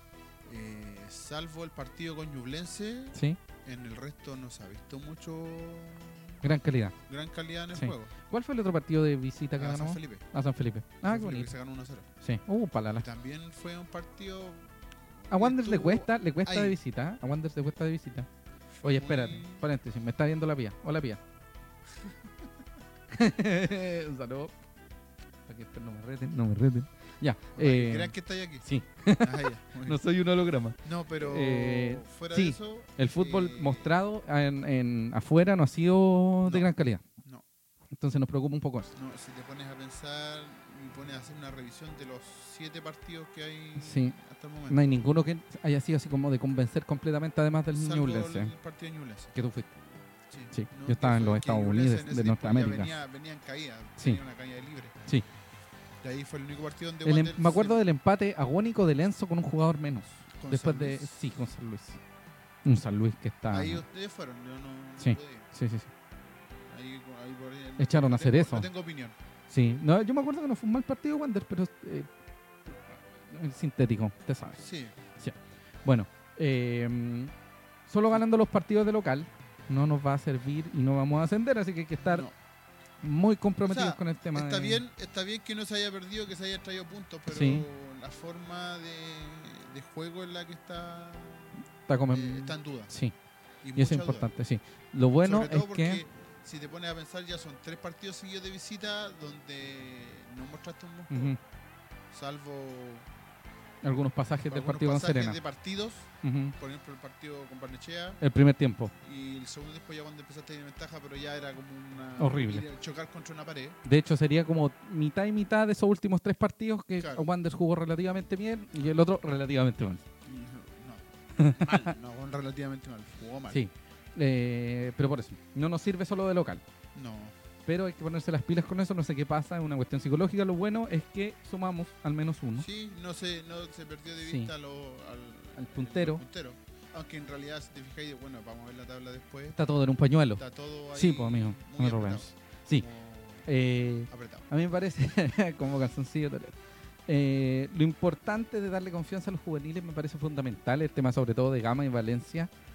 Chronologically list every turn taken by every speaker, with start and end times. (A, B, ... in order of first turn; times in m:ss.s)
0:00.4-0:06.4 A
0:06.4-0:06.9 B
0:07.1-0:08.1 A
0:07.7-0:11.5 B
0:09.6-0:10.2 A
0:11.0-0:12.1 A
0:12.2-0:13.0 B
0:13.0-0:16.7 A
0:15.3-0:18.3 B
0:18.7-0:19.6 A
0:18.8-0:21.2 B
0:23.1-0:24.5 B
0:25.5-0:37.0 B
0:27.6-0:28.6 A
0:29.2-0:30.0 A
0:30.8-0:33.9 A
0:37.9-0:38.9 B
0:39.0-0:45.0 A
0:43.8-0:44.2 B
0:44.7-0:48.5 B
0:47.7-0:49.3 A
0:49.3-0:49.7 B
0:50.3-0:55.0 A
0:50.5-0:53.0 B
0:56.0-0:57.8 A
0:57.0-1:02.0 B
1:00.4-1:01.2 A
1:02.6-1:03.8 B
1:03.5-1:05.5 A
1:05.0-1:05.9 B
1:06.7-1:09.2 A
1:07.8-1:08.7 B
1:09.5-1:12.1 B
1:12.9-1:14.6 B
1:14.6-1:15.0 A
1:15.2-1:17.3 B
1:17.9-1:22.2 B
1:22.0-1:22.3 A
1:23.0-1:24.8 B
1:23.6-1:31.6 A
1:27.3-1:27.6 B
1:31.9-1:33.1 B
1:32.1-1:32.9 A
1:33.6-1:34.3 A
1:33.8-1:36.0 B
1:35.2-1:41.3 A
1:41.1-1:41.4 B
1:42.1-1:43.0 A
1:43.8-1:45.4 B
1:44.5-1:48.2 A
1:46.2-1:46.5 B
1:48.2-1:48.9 B
1:49.0-1:53.8 A
1:52.2-1:52.6 B
1:53.8-2:00.0 B
1:57.0-1:57.3 A
2:00.2-2:03.6 A
2:01.4-2:01.9 B
2:03.5-2:06.6 B
2:06.9-2:07.3 A
2:07.6-2:12.6 B
2:12.6-2:19.6 A
2:14.2-2:14.5 B
2:15.6-2:16.2 B
2:19.5-2:20.4 B
2:20.4-2:23.5 A
2:20.9-2:22.8 B
2:23.4-2:26.6 B
2:24.1-2:24.5 A
2:27.1-2:32.5 B